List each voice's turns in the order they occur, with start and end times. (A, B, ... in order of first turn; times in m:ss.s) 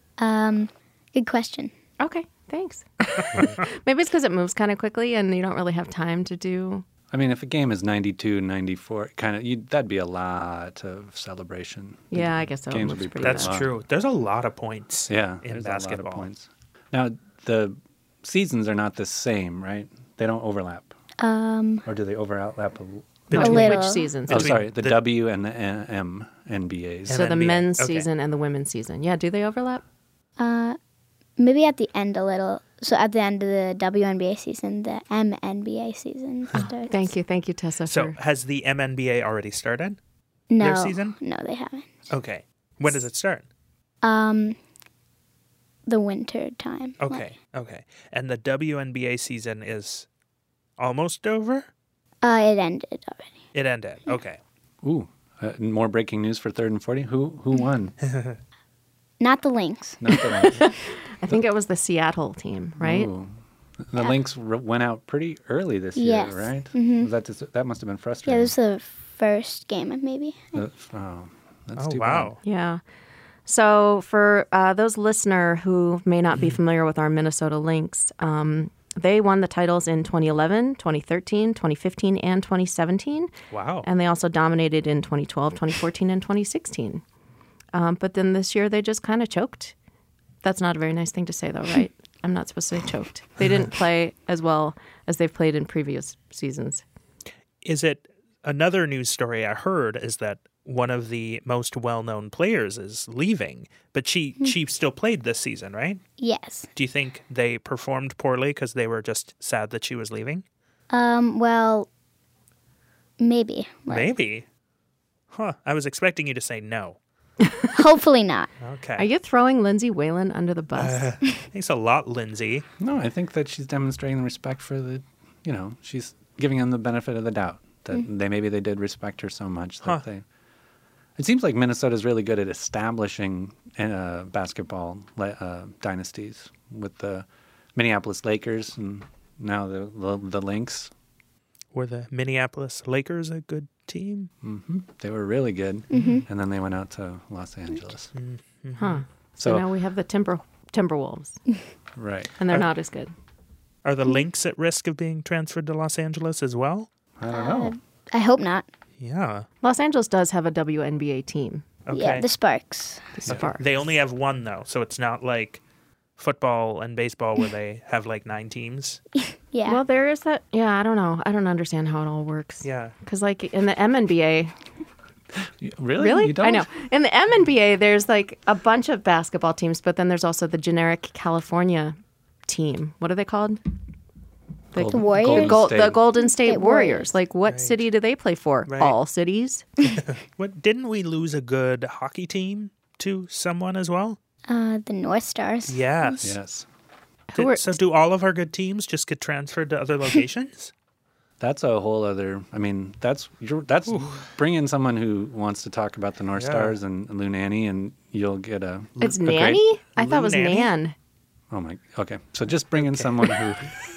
0:00.2-0:01.7 A
0:02.0-0:06.8 B
0:07.1-0:13.7 C
0:12.1-0:13.6 B
0:13.2-0:16.3 D
0:15.1-0:20.9 C
0:21.2-0:21.8 A
0:21.9-0:23.4 C
0:23.3-0:25.0 D
0:23.3-0:24.5 B
0:23.4-0:24.1 A
0:24.3-0:27.2 C
0:27.1-0:28.1 D
0:27.1-0:29.8 B
0:30.4-0:30.8 A
0:31.4-0:37.1 A
0:36.9-0:38.2 B
0:37.9-0:40.0 D
0:40.5-0:41.9 A
0:40.6-0:41.2 D
0:42.1-0:43.4 D
0:44.0-0:44.6 A
0:45.9-0:47.2 A
0:47.0-0:50.1 D
0:50.8-0:51.7 D
0:52.2-0:53.3 A
0:53.5-0:54.4 D
0:54.8-0:58.0 C
0:58.1-0:58.4 D
0:59.2-1:00.5 A
1:00.0-1:00.7 C
1:00.4-1:03.1 B
1:02.8-1:08.5 C
1:06.0-1:07.1 A
1:08.3-1:10.5 A
1:10.5-1:12.4 C
1:11.8-1:12.4 D
1:12.4-1:12.8 B
1:13.5-1:23.3 B
1:23.5-1:23.9 D
1:23.8-1:27.0 B
1:27.7-1:29.8 B
1:30.4-1:36.8 B
1:37.6-1:46.0 D
1:46.2-1:46.7 A
1:46.8-1:50.4 D
1:50.9-1:51.9 A
1:53.2-1:54.1 A
1:53.9-1:54.4 D
1:55.3-1:57.0 D
1:57.7-1:58.5 A
1:58.6-1:59.1 D
1:59.0-2:01.1 B
2:00.8-2:02.7 D
2:02.8-2:10.2 C
2:11.2-2:20.9 C
2:21.7-2:24.3 D
2:24.4-2:28.1 C
2:25.9-2:26.2 A
2:28.2-2:29.0 D
2:28.8-2:31.4 B
2:29.4-2:29.6 C
2:32.0-2:32.4 C
2:32.4-2:33.1 B
2:33.8-2:36.9 D
2:37.2-2:37.8 C
2:37.3-2:38.7 A
2:39.0-2:39.5 D
2:39.6-2:41.7 B
2:41.9-2:42.3 D
2:41.9-2:43.1 A
2:43.2-2:43.6 B
2:43.3-2:45.6 D
2:46.2-2:49.0 D
2:49.3-2:49.8 A
2:49.7-2:54.5 B
2:52.6-2:52.9 D
2:55.5-2:56.7 C
2:56.0-3:02.0 B
3:02.5-3:03.6 B
3:04.7-3:09.7 B
3:04.8-3:06.0 C
3:04.9-3:07.1 A
3:07.5-3:07.8 D
3:08.7-3:09.0 D
3:10.0-3:14.2 D
3:14.5-3:16.2 A
3:15.7-3:16.4 D
3:16.2-3:16.7 C
3:17.3-3:17.8 B
3:17.4-3:20.7 D
3:21.4-3:29.5 C
3:23.9-3:24.3 D
3:26.4-3:26.8 D
3:29.0-3:30.7 D
3:29.0-3:30.9 B
3:31.5-3:33.7 C
3:32.8-3:33.4 D